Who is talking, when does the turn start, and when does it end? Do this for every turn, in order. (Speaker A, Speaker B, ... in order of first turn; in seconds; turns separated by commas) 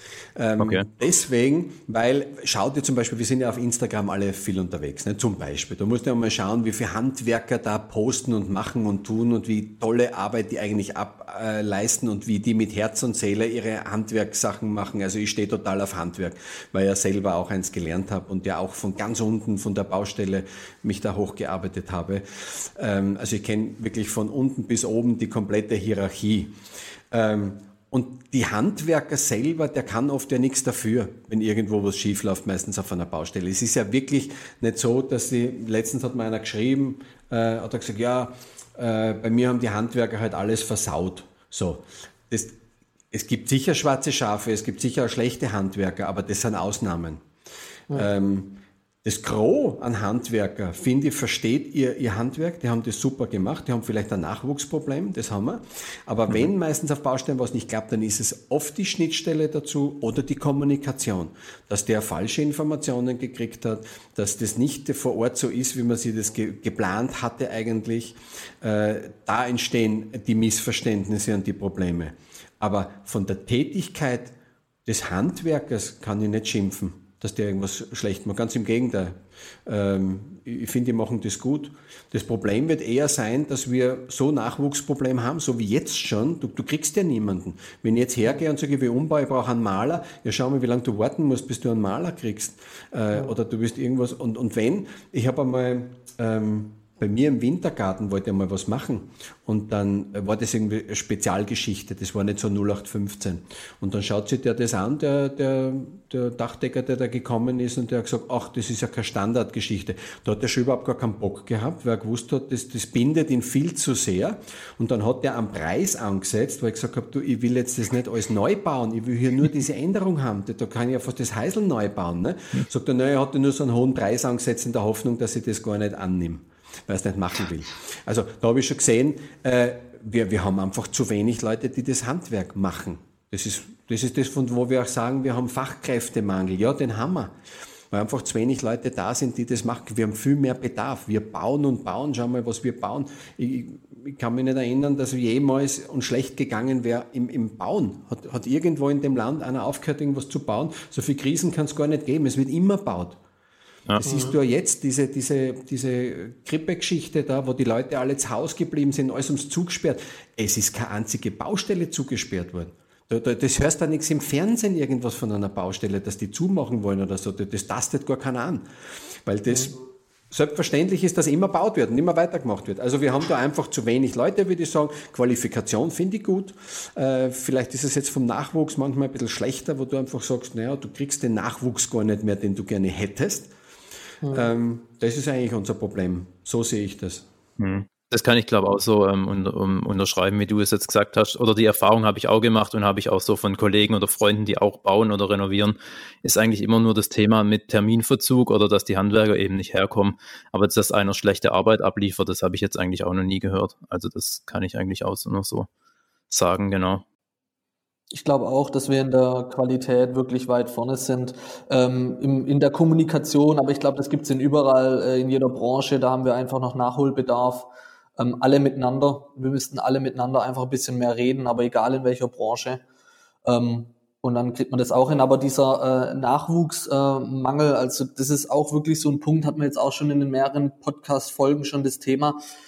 Speaker A: 0.3-26.5, Speaker B: 0.6-0.9, Speaker A: 27.1-42.5, Speaker A: 43.1-47.2, Speaker A: 47.9-74.3, Speaker A: 74.8-137.3, Speaker A: 137.9-153.2, Speaker A: 154.0-168.6, Speaker C: 154.0-154.4, Speaker A: 169.2-169.8, Speaker A: 170.3-183.5, Speaker C: 184.2-184.5, Speaker A: 184.3-187.2, Speaker B: 187.6-205.7, Speaker B: 206.3-207.0, Speaker C: 208.1-222.8, Speaker C: 223.4-232.4